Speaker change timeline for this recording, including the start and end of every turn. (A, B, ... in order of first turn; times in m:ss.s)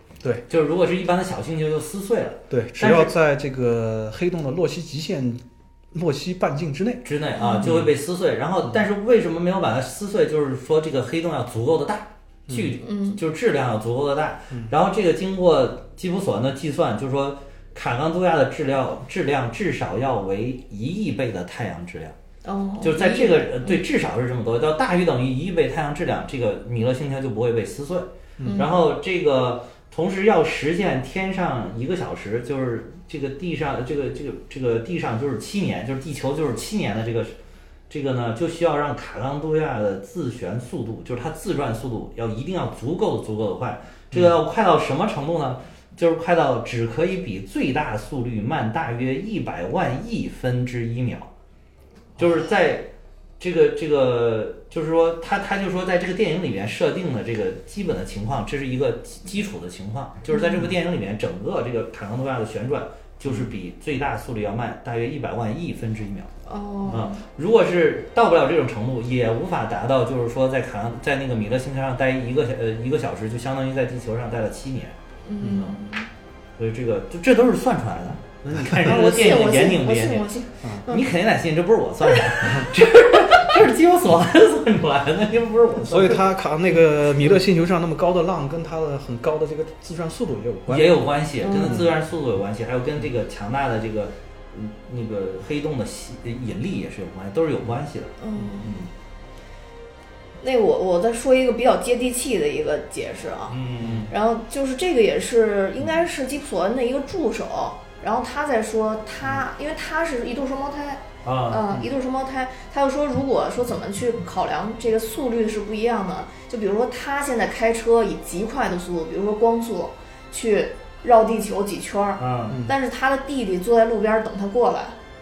0:00.5-0:03.1 A
0:02.5-0:07.0 B
0:07.0-0:22.2 A
0:07.4-0:07.7 C
0:07.6-0:07.9 B
0:12.5-0:12.8 B
0:12.8-0:13.2 C
0:22.4-0:23.8 C
0:22.8-0:37.4 A
0:28.4-0:28.7 B
0:28.4-0:28.8 C
0:37.9-0:51.3 A
0:52.2-1:06.3 A
1:00.3-1:00.7 C
1:03.2-1:03.5 B
1:06.5-1:07.2 C
1:06.9-1:15.0 A
1:15.2-1:16.1 C
1:15.4-1:15.7 B
1:16.6-1:20.3 A
1:18.5-1:19.0 B
1:18.8-1:21.1 C
1:20.9-1:26.3 A
1:25.8-1:31.0 B
1:30.7-1:38.1 A
1:31.4-1:31.9 C
1:31.6-1:32.0 B
1:38.2-1:38.8 C
1:38.6-1:38.9 B
1:40.4-2:05.0 C
1:43.5-1:44.1 A
1:43.8-1:44.1 B
1:51.2-1:51.8 A
2:02.2-2:02.6 A
2:02.5-2:02.7 B